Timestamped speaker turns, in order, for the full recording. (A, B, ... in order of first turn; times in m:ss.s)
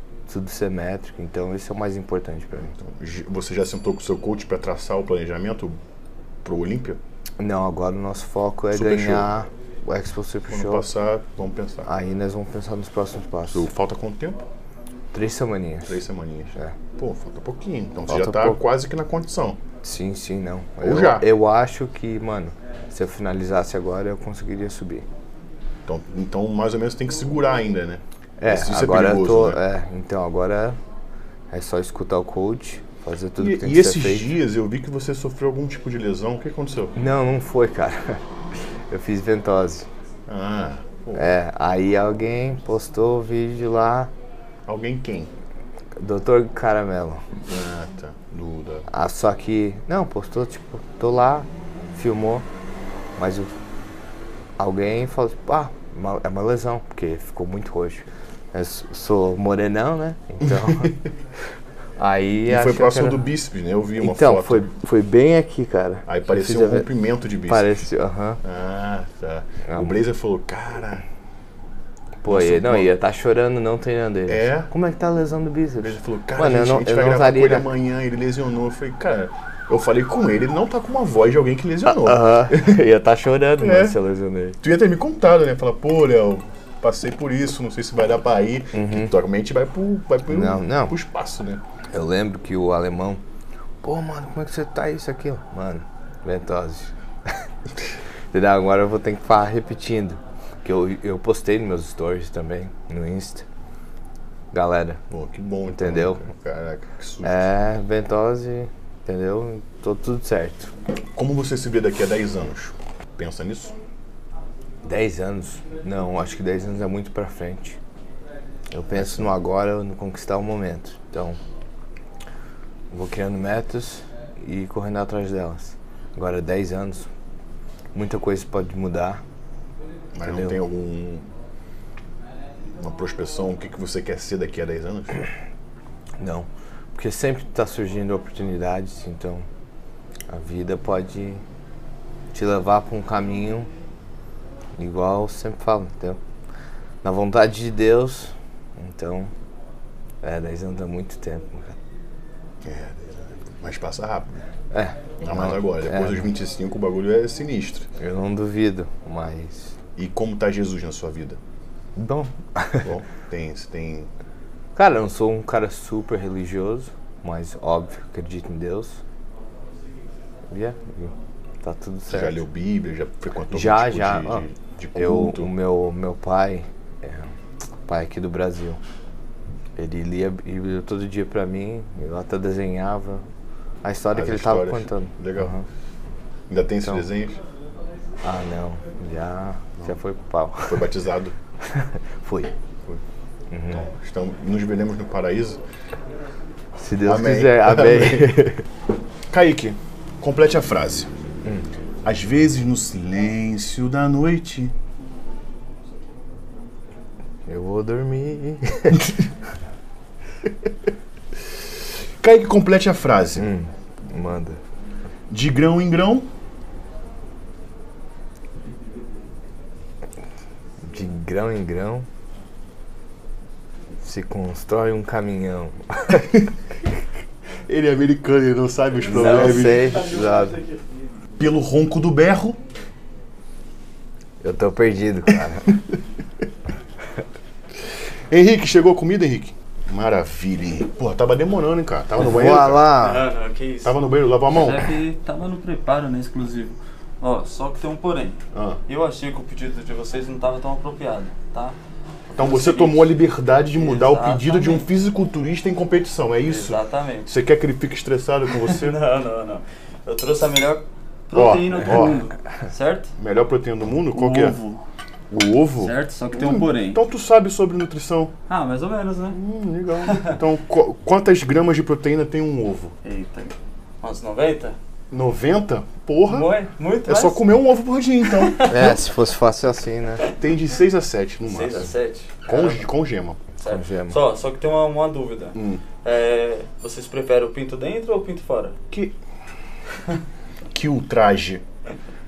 0:00.3-0:02.7 A
0:02.7-0:05.8 B
0:06.4-0:07.0 B
0:07.4-0:10.9 A
0:08.7-0:09.3 B
0:10.5-0:11.9 B
0:11.9-0:13.7 A
0:13.5-0:14.4 B
0:15.1-0:16.0 A
0:15.8-0:19.6 B
0:18.1-0:18.6 A
0:19.8-0:25.1 A
0:20.8-0:21.3 B
0:25.9-0:29.6 B
0:28.4-0:30.8 A
0:31.5-0:34.4 A
0:33.4-0:37.0 B
0:36.9-0:39.9 A
0:40.3-0:41.3 B
0:41.1-0:44.1 A
0:44.7-0:45.3 B
0:46.0-0:47.2 A
0:47.5-0:48.9 B
0:48.9-0:52.5 A
0:53.2-0:53.5 A
0:54.6-1:01.0 A
1:00.4-1:01.0 B
1:02.0-1:03.3 A
1:02.5-1:04.7 B
1:04.0-1:06.9 A
1:06.1-1:07.7 B
1:07.5-1:08.4 A
1:08.4-1:11.0 B
1:09.7-1:10.0 A
1:12.2-1:17.7 A
1:12.3-1:13.0 B
1:14.3-1:14.7 B
1:15.8-1:22.8 B
1:21.9-1:24.6 A
1:23.6-1:24.0 B
1:24.6-1:31.6 B
1:28.7-1:29.1 A
1:30.3-1:31.0 A
1:31.9-1:33.2 A
1:33.8-1:37.4 A
1:38.3-1:43.5 A
1:44.5-1:45.0 A
1:45.1-1:47.5 B
1:45.7-1:46.3 A
1:47.2-1:50.7 A
1:51.2-1:53.8 B
1:54.8-1:57.8 A
1:58.7-2:01.4 A
1:59.0-1:59.3 B
2:02.9-2:07.1 A
2:07.9-2:09.2 A
2:10.2-2:11.3 B
2:10.2-2:10.6 A
2:12.8-2:15.3 B
2:16.2-2:19.5 A
2:20.3-2:21.4 A
2:22.3-2:23.7 A
2:24.8-2:26.2 A
2:27.0-2:29.3 A
2:30.2-2:31.8 A
2:32.6-2:34.4 B
2:34.7-2:36.3 A
2:35.2-2:37.9 B
2:38.0-2:39.8 A
2:40.0-2:41.4 B
2:42.0-2:42.9 A
2:42.8-2:44.1 B
2:44.8-2:49.0 A
2:50.5-2:52.4 A
2:52.1-2:55.5 B
2:53.5-2:57.3 A
2:57.9-2:58.8 A
2:59.8-3:03.2 A
3:03.8-3:05.6 A
3:04.1-3:05.5 B
3:06.5-3:07.4 B
3:08.2-3:10.8 A
3:10.6-3:11.4 B
3:11.6-3:12.5 A
3:13.5-3:13.9 A
3:13.7-3:15.6 B
3:16.8-3:18.6 A
3:17.0-3:18.4 B
3:19.3-3:21.1 B
3:22.0-3:24.7 B
3:27.5-3:29.1 A
3:32.2-3:33.5 B
3:33.4-3:34.6 A
3:35.3-3:36.3 B
3:40.8-3:42.1 A
3:44.0-3:46.3 A
3:47.7-3:50.2 B
3:49.1-3:50.6 A
3:49.1-3:49.7 C
3:51.4-3:52.6 B
3:54.4-3:55.8 A
3:58.3-4:03.0 B
4:02.2-4:03.3 A
4:02.6-4:04.0 C
4:03.8-4:04.9 B
4:04.5-4:11.8 C
4:08.5-4:08.8 B
4:12.3-4:13.2 C
4:12.4-4:19.0 B
4:13.7-4:14.9 C
4:16.5-4:17.3 C
4:18.5-4:23.1 C
4:21.3-4:22.2 B
4:23.2-4:24.6 B
4:24.0-4:24.8 C
4:25.3-4:28.3 B
4:25.8-4:27.0 C
4:28.5-4:29.4 C
4:29.3-4:33.0 B
4:30.0-4:30.4 C
4:33.0-4:34.8 C
4:35.1-4:36.5 B
4:36.3-4:37.5 C
4:37.1-4:38.9 B
4:38.3-4:38.9 C
4:38.7-4:40.2 A
4:40.4-4:41.9 B
4:41.4-4:42.9 C
4:42.5-4:43.4 B
4:43.6-4:48.8 C
4:43.6-4:44.2 A
4:45.6-4:45.8 B
4:50.7-4:51.6 B